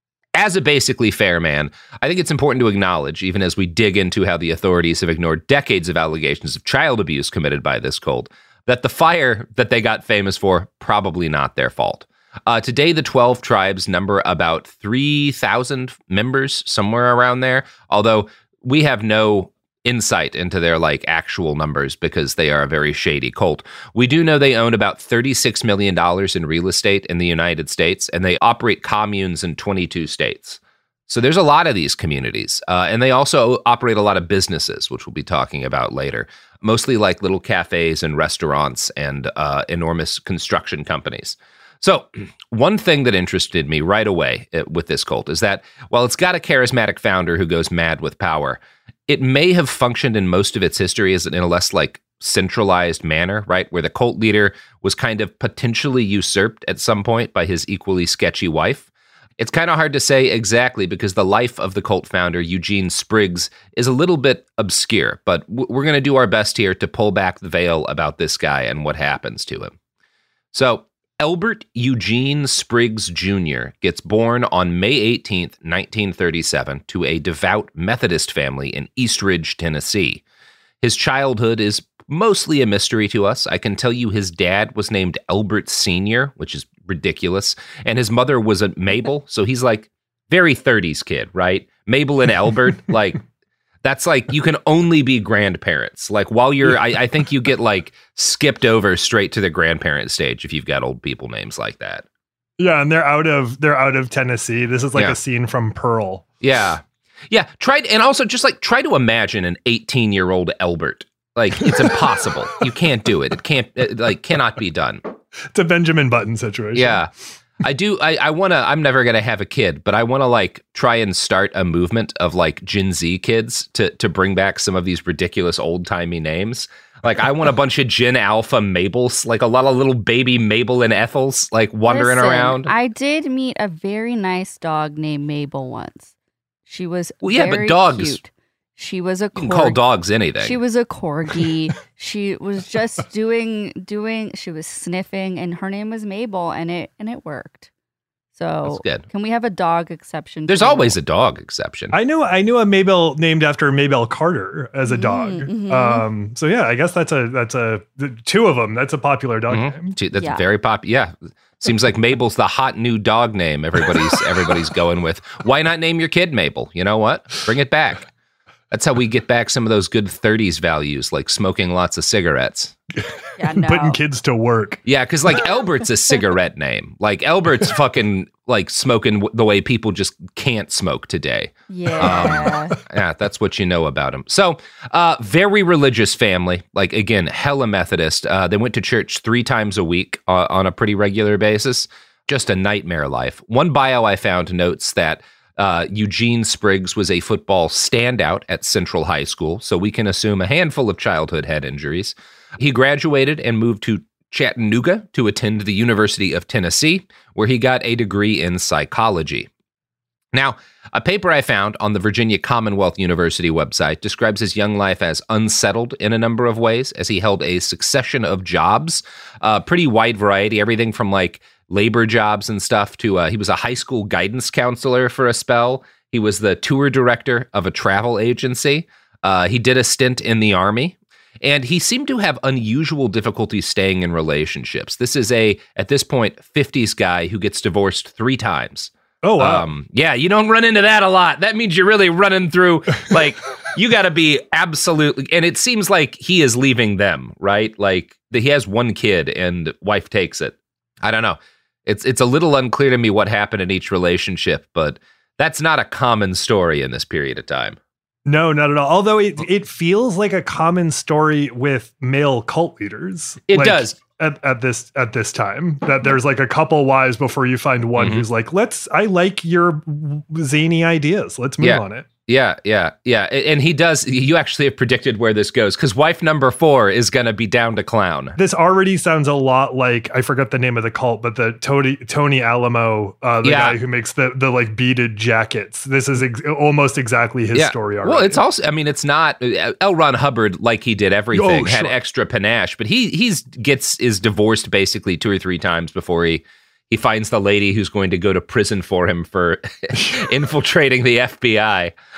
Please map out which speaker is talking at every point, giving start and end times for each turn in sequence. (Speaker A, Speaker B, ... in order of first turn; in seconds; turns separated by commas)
Speaker A: 0.4-58.9, Speaker A: 59.4-69.7, Speaker A: 70.5-80.2, Speaker A: 80.8-93.2, Speaker A: 93.8-102.0, Speaker B: 102.6-106.2, Speaker A: 106.4-115.0, Speaker B: 115.5-117.1, Speaker A: 116.7-117.1, Speaker A: 117.6-132.7, Speaker C: 131.9-136.1, Speaker C: 136.7-139.8, Speaker A: 137.2-138.2, Speaker A: 139.3-140.6, Speaker C: 140.4-147.7, Speaker C: 148.3-151.0, Speaker A: 148.7-149.0, Speaker A: 150.5-151.9, Speaker B: 151.9-159.9, Speaker C: 154.9-156.1, Speaker A: 159.5-168.1, Speaker C: 160.1-160.4, Speaker A: 168.7-172.7, Speaker B: 173.1-174.8, Speaker C: 173.4-174.0, Speaker A: 174.8-209.5, Speaker C: 181.7-182.8, Speaker B: 182.1-182.6, Speaker A: 210.3-257.8, Speaker B: 239.2-239.7, Speaker B: 258.3-272.1, Speaker A: 263.5-264.0, Speaker A: 268.0-268.2, Speaker A: 271.6-278.4, Speaker B: 278.4-288.4, Speaker A: 283.4-283.8, Speaker A: 287.5-301.9, Speaker B: 291.3-291.9